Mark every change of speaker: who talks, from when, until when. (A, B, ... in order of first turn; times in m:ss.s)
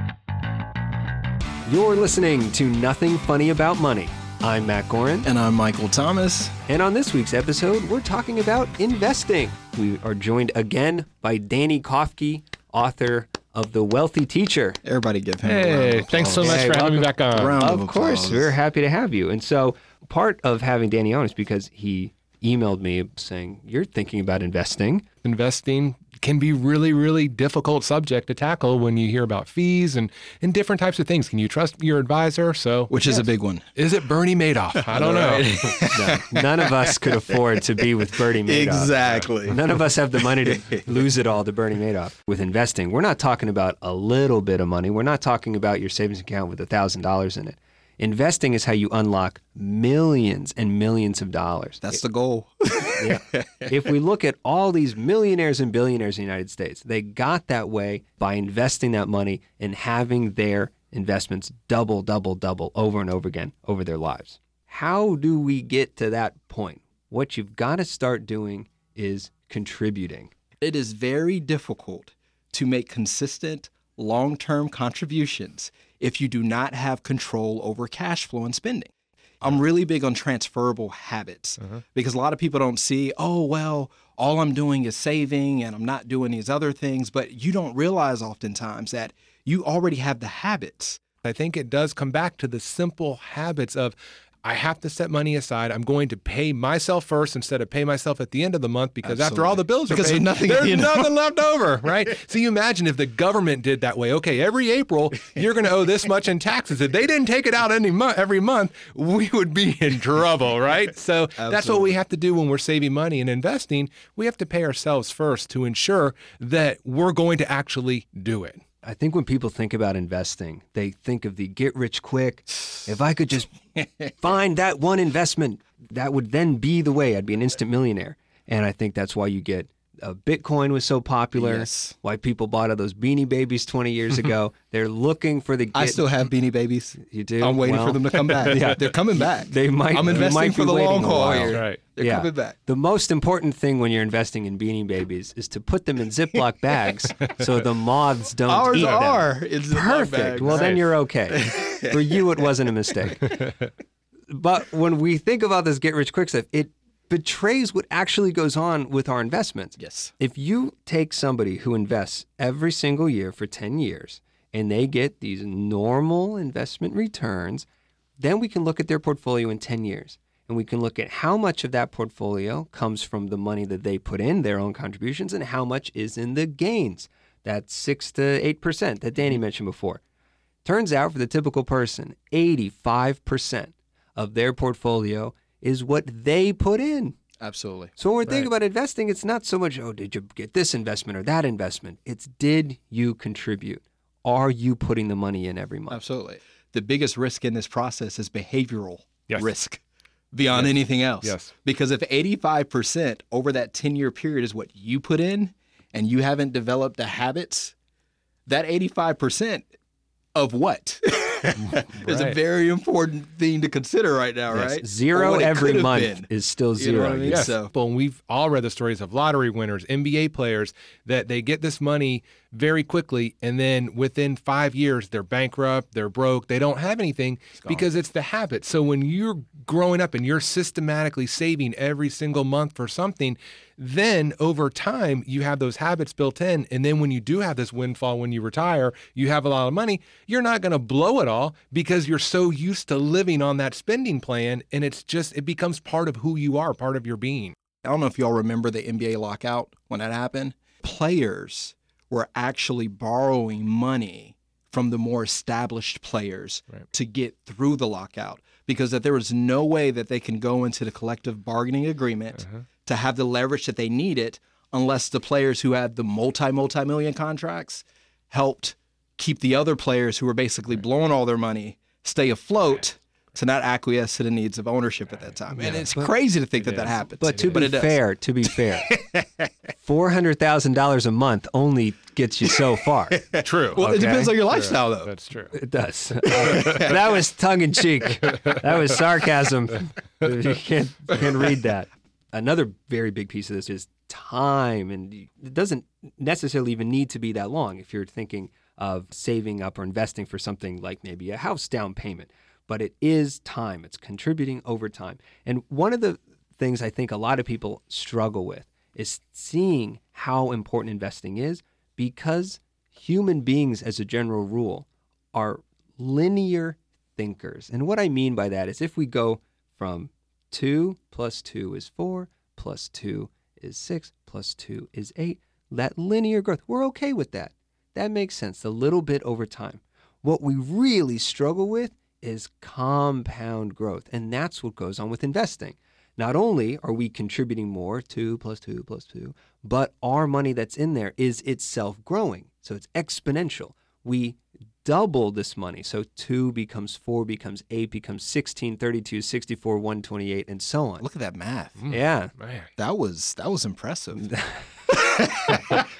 0:01.7-0:05.3 A
0:05.2-0:06.5 B
0:06.7-0:14.8 A
0:14.8-0:18.5 B
0:15.4-0:17.6 C
0:16.4-0:25.0 A
0:25.2-0:35.7 C
0:32.9-0:33.6 B
0:34.8-0:37.8 B
0:35.9-0:52.0 A
0:38.4-0:41.0 B
0:51.8-0:53.8 B
0:53.0-1:10.3 A
1:10.6-1:31.0 B
1:31.2-1:58.6 C
1:39.0-1:41.1 B
1:51.4-1:52.0 B
1:58.8-2:03.6 A
2:03.8-2:04.1 B
2:04.2-2:16.0 A
2:11.4-2:12.0 B
2:15.7-2:22.6 B
2:17.0-2:33.4 A
2:21.5-2:21.8 C
2:28.4-2:32.5 B
2:30.4-2:30.8 C
2:34.3-2:47.7 A
2:39.8-2:40.1 B
2:48.2-3:00.0 A
3:00.6-3:07.2 A
3:07.4-3:07.9 B
3:08.0-3:16.0 A
3:15.9-3:19.8 B
3:20.3-3:27.7 B
3:20.5-3:21.5 C
3:28.4-3:29.7 B
3:30.3-3:37.7 B
3:31.6-3:32.4 C
3:34.5-3:37.5 A
3:37.3-4:07.5 C
3:47.6-3:47.9 B
4:07.8-4:39.5 B
4:22.4-4:22.6 C
4:35.6-4:36.1 A
4:35.6-4:35.8 C
4:36.6-4:37.6 C
4:37.2-4:38.9 A
4:39.8-4:43.2 A
4:43.1-4:45.1 B
4:43.4-4:45.6 C
4:45.5-5:51.0 A
4:46.2-4:47.0 B
4:46.5-4:46.9 C
5:51.0-5:51.8 B
5:51.8-5:52.7 C
5:51.9-5:52.3 A
5:52.8-5:54.3 B
5:54.2-5:54.6 A
5:54.9-5:55.9 B